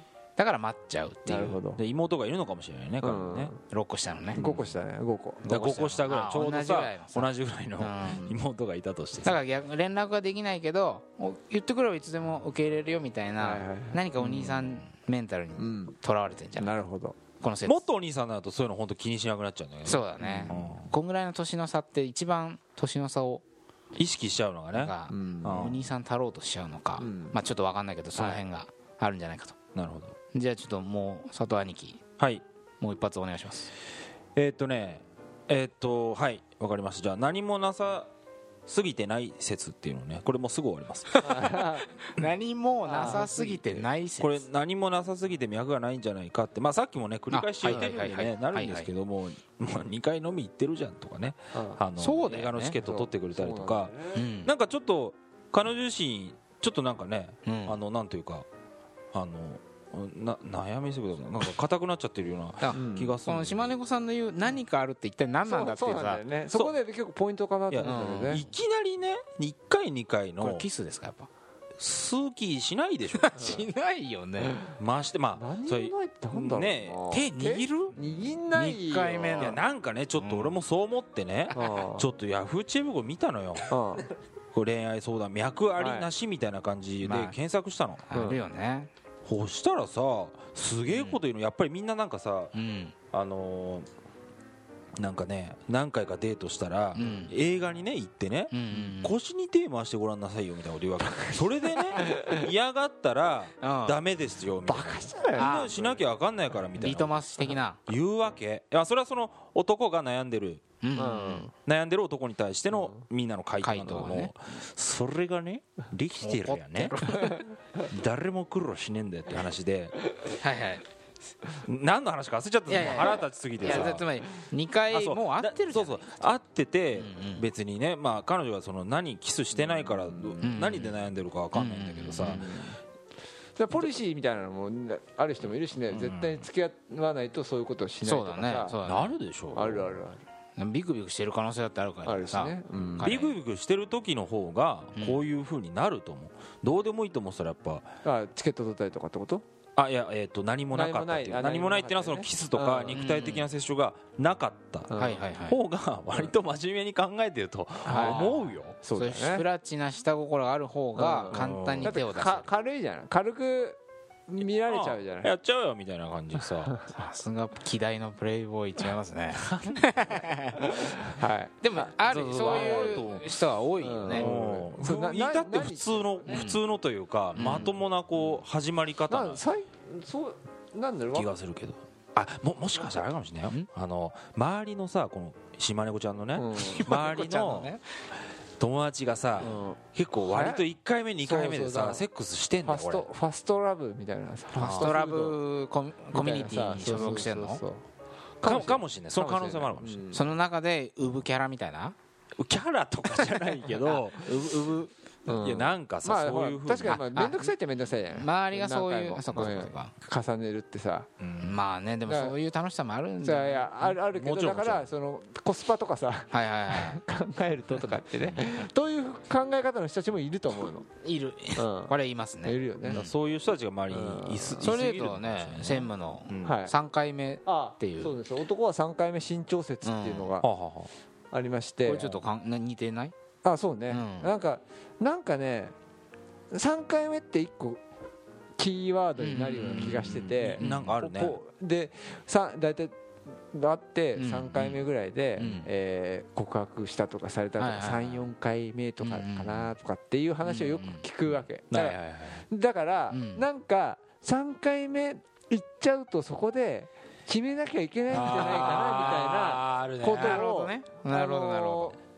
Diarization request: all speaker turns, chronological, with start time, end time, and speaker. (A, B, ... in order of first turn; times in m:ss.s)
0:00.4-0:01.6 A
0:01.2-0:01.8 B
0:01.8-0:03.5 C
0:03.0-0:03.6 B
0:03.7-0:04.4 A
0:04.3-0:05.4 B
0:04.4-0:04.7 C
0:05.4-0:08.3 A
0:05.4-0:09.3 C
0:09.2-0:16.8 A
0:13.4-0:14.5 B
0:14.2-0:14.8 C
0:15.6-0:15.9 B
0:16.6-0:17.2 B
0:17.4-0:17.8 A
0:17.6-0:20.9 C
0:19.8-0:23.4 A
0:20.2-0:20.6 B
0:24.0-0:25.8 C
0:24.7-0:29.6 A
0:25.1-0:25.6 B
0:27.0-0:27.4 B
0:28.2-0:28.4 B
0:29.7-0:30.1 C
0:30.3-0:32.0 A
0:32.2-0:32.4 C
0:32.8-0:33.7 A
0:34.4-0:38.1 C
0:38.7-0:41.2 C
0:41.2-0:44.4 A
0:41.2-0:41.9 B
0:42.8-0:43.9 B
0:44.2-0:58.4 C
0:47.3-0:48.9 A
0:51.5-0:51.8 B
0:52.0-0:52.8 A
0:52.8-0:54.2 B
0:54.1-0:54.5 A
0:57.4-0:57.8 A
0:59.1-1:03.8 C
1:02.6-1:06.2 A
1:02.7-1:03.1 B
1:05.4-1:08.4 B
1:07.7-1:10.6 C
1:07.8-1:08.4 A
1:10.4-1:11.3 A
1:11.8-1:13.3 C
1:13.1-1:14.7 A
1:13.4-1:13.7 B
1:14.8-1:17.9 C
1:15.4-1:19.6 B
1:17.1-1:17.9 A
1:18.5-1:19.6 A
1:19.3-1:23.7 C
1:20.2-1:20.5 A
1:21.5-1:22.1 B
1:23.7-1:24.0 B
1:24.5-1:28.0 C
1:25.8-1:26.1 B
1:27.0-1:27.3 A
1:28.1-1:28.9 A
1:28.1-1:28.4 B
1:29.2-1:32.5 C
1:30.9-1:31.2 A
1:32.5-1:32.9 A
1:33.1-1:33.9 C
1:35.0-1:47.2 C
1:37.0-1:37.3 A
1:38.5-1:39.1 A
1:41.1-1:42.4 B
1:43.6-1:44.0 A
1:44.7-1:45.7 B
1:45.4-1:46.0 A
1:46.8-1:47.8 A
1:47.9-1:50.6 C
1:50.8-1:51.5 A
1:51.0-1:51.5 B
1:51.6-1:57.0 C
1:53.6-1:54.3 A
1:56.2-1:57.4 A
1:57.8-1:59.9 C
2:00.3-2:00.8 A
2:01.6-2:04.0 C
2:02.7-2:06.2 A
2:04.9-2:12.5 C
2:06.9-2:07.4 A
2:09.6-2:10.4 B
2:10.4-2:10.9 A
2:11.5-2:12.5 A
2:12.2-2:12.8 B
2:13.6-2:18.8 B
2:15.9-2:16.5 C
2:18.0-2:19.1 A
2:18.8-2:20.0 C
2:19.5-2:20.2 B
2:20.6-2:23.4 A
2:22.0-2:23.1 B
2:23.0-2:27.9 C
2:28.0-2:29.4 B
2:29.8-2:38.8 C
2:30.7-2:33.0 B
2:32.9-2:33.5 A
2:34.9-2:35.3 B
2:34.9-2:35.6 A
2:37.8-2:39.4 B
2:37.9-2:42.5 A
2:41.0-2:45.3 B
2:41.3-2:41.9 C
2:44.6-2:46.7 C
2:46.9-2:51.0 A
2:49.4-2:49.9 C
2:50.8-2:53.1 B
2:51.6-2:54.3 A
2:52.0-2:53.3 C
2:53.8-2:56.4 B
2:54.1-2:59.4 C
2:56.3-2:56.6 A
2:57.3-2:57.7 A
2:59.1-3:01.3 B
3:01.1-3:07.7 C
3:06.3-3:06.8 B
3:06.5-3:07.8 A
3:08.6-3:13.1 C
3:09.4-3:10.6 B
3:11.2-3:12.0 B
3:12.6-3:15.4 B
3:14.6-3:17.6 A
3:14.6-3:14.9 C
3:16.1-3:17.8 B
3:18.4-3:20.2 C
3:18.4-3:20.2 B
3:20.1-3:21.9 A
3:22.4-3:27.0 C
3:23.6-3:24.0 A
3:25.2-3:31.1 B
3:26.8-3:27.5 A
3:28.1-3:29.9 A
3:31.2-3:31.6 C
3:31.4-3:33.7 A
3:32.0-3:32.4 B
3:33.2-3:40.9 B
3:34.1-3:34.9 C
3:36.3-3:37.0 A
3:41.0-3:43.1 A
3:41.6-3:43.0 B
3:42.9-3:46.6 C
3:43.9-3:44.8 B
3:44.6-3:48.1 A
3:46.4-3:46.7 B
3:47.4-3:50.5 B
3:49.8-3:50.3 A
3:50.4-3:50.9 C
3:51.3-3:52.2 B
3:51.8-3:53.1 A
3:53.4-3:55.7 B
3:53.9-3:54.3 A
3:56.5-3:57.8 B
3:58.6-4:03.0 B
3:59.2-4:00.9 A
3:59.7-4:01.4 C
4:03.5-4:12.0 B
4:04.2-4:04.8 A
4:05.4-4:05.7 A
4:07.6-4:08.2 A
4:09.0-4:09.7 A
4:10.4-4:11.0 A
4:11.7-4:12.4 C
4:12.5-4:22.0 B
4:13.1-4:13.4 A
4:18.1-4:20.4 C
4:18.1-4:19.5 A
4:20.0-4:22.0 A